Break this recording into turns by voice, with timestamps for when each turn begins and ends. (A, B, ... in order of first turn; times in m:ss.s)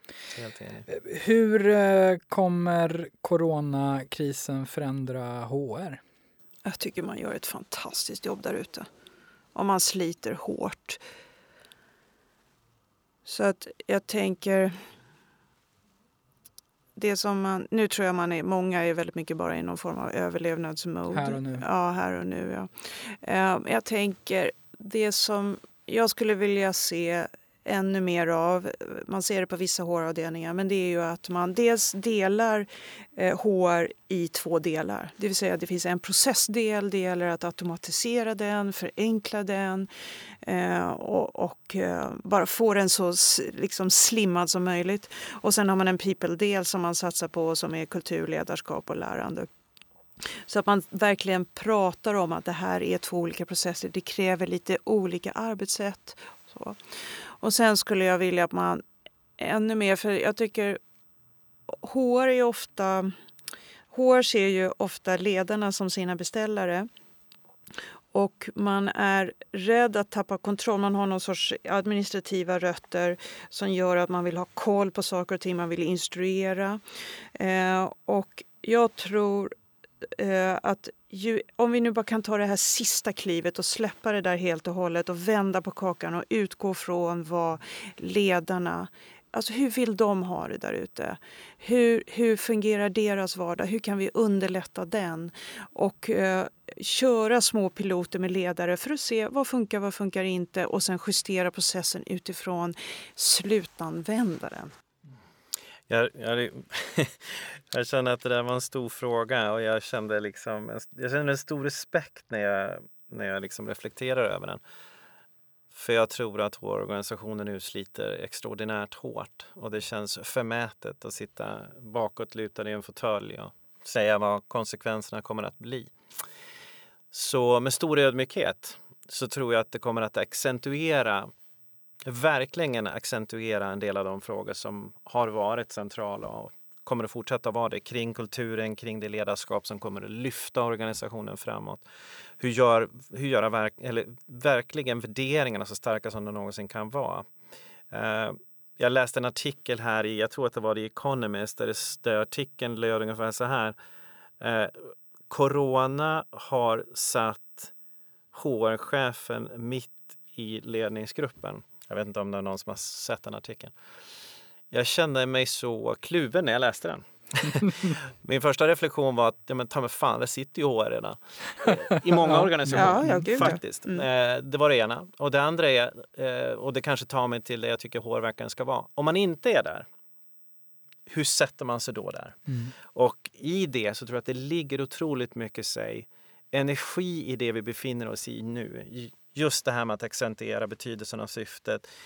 0:00.3-0:00.9 A
0:00.9-0:06.0 B
0:06.6-0:08.9 C
0:09.5-0:11.0 C
0:13.2-0:14.8 C
0:17.0-0:39.9 C
0:21.1-0:21.6 B
0:40.4-0:49.5 C
0:50.3-0:56.8 C
0:57.4-0:58.8 C
0:59.4-1:00.8 C
1:01.7-1:03.1 C
1:03.9-1:06.9 C
1:08.1-1:16.8 C
1:17.3-1:19.5 C
1:20.1-1:44.7 C
1:45.9-1:54.6 A
1:55.7-2:05.9 A
2:07.1-2:11.3 A
2:12.0-2:21.8 A
2:22.4-2:27.3 A
2:27.9-2:33.7 A
2:34.4-2:37.7 A
2:38.3-2:43.7 A
2:44.7-2:59.8 A
2:51.9-2:53.5 B
2:52.7-2:54.0 C
3:01.1-3:11.8 A
3:02.5-3:02.7 B